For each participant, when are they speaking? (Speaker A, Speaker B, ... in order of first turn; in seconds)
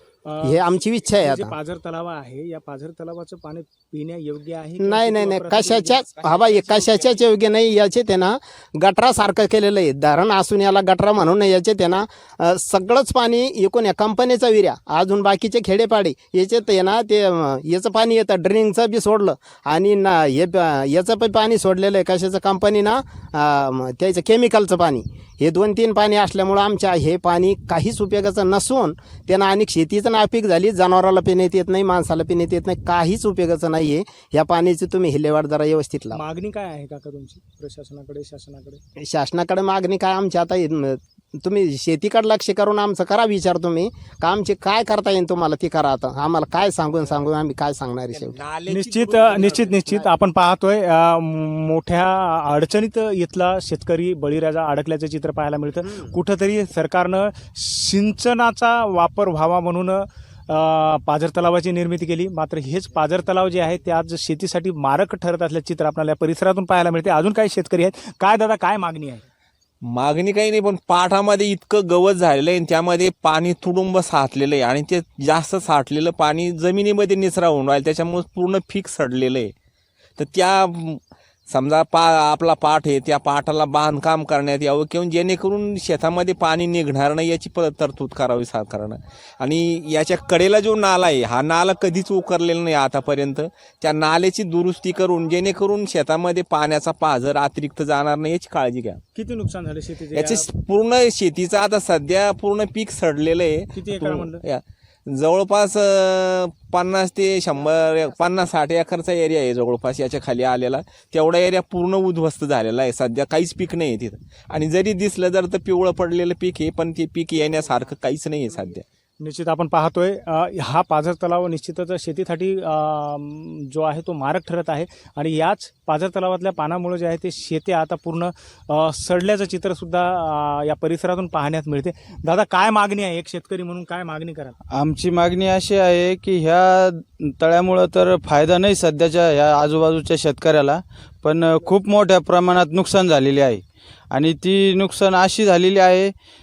Speaker A: 0.2-6.0, 36.1-38.8, 48.7-69.2, 99.2-100.5, 103.7-104.4, 119.2-134.6
Speaker B: 0.4-1.6, 4.8-36.2, 39.0-48.4
Speaker C: 6.2-7.2, 48.1-50.1, 69.8-79.5, 80.2-99.0, 100.1-118.8
Speaker D: 134.8-146.1